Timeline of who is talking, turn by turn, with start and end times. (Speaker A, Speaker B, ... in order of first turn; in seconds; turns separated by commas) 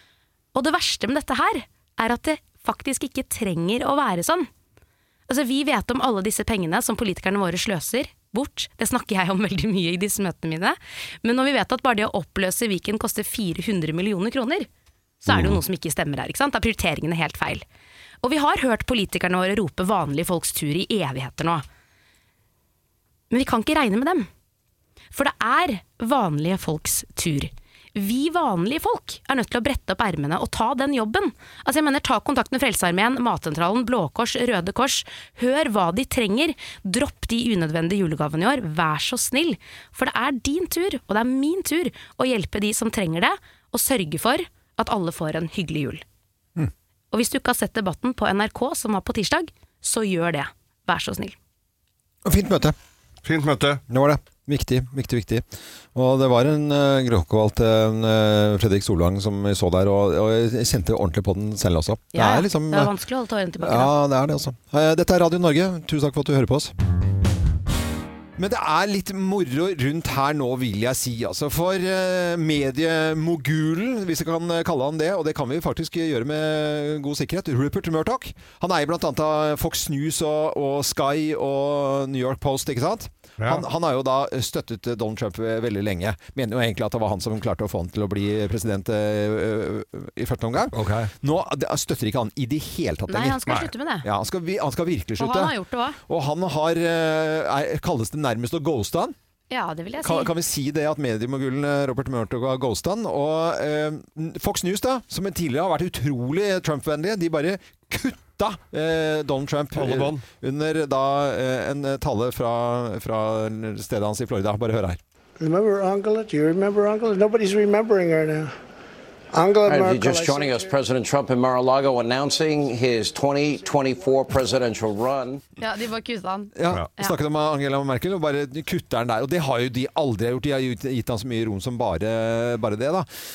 Speaker A: 0.5-4.5, Speaker A: 5.3-14.7, Speaker A: 15.2-17.6, Speaker B: 15.3-15.6, Speaker A: 18.2-21.6, Speaker A: 23.3-24.3, Speaker A: 25.1-46.0, Speaker A: 47.1-51.4, Speaker C: 52.2-52.8, Speaker B: 53.2-53.8, Speaker C: 53.9-62.9, Speaker A: 62.1-63.9, Speaker C: 63.6-66.7, Speaker C: 68.4-93.5, Speaker B: 90.7-91.1, Speaker A: 93.1-94.1, Speaker C: 94.0-95.5, Speaker A: 95.2-96.0, Speaker C: 96.1-99.2, Speaker A: 99.5-100.3, Speaker C: 100.0-115.0, Speaker B: 109.8-110.2, Speaker D: 115.4-118.5, Speaker D: 119.3-120.7, Speaker E: 119.7-125.4, Speaker A: 125.6-127.2, Speaker C: 126.6-133.1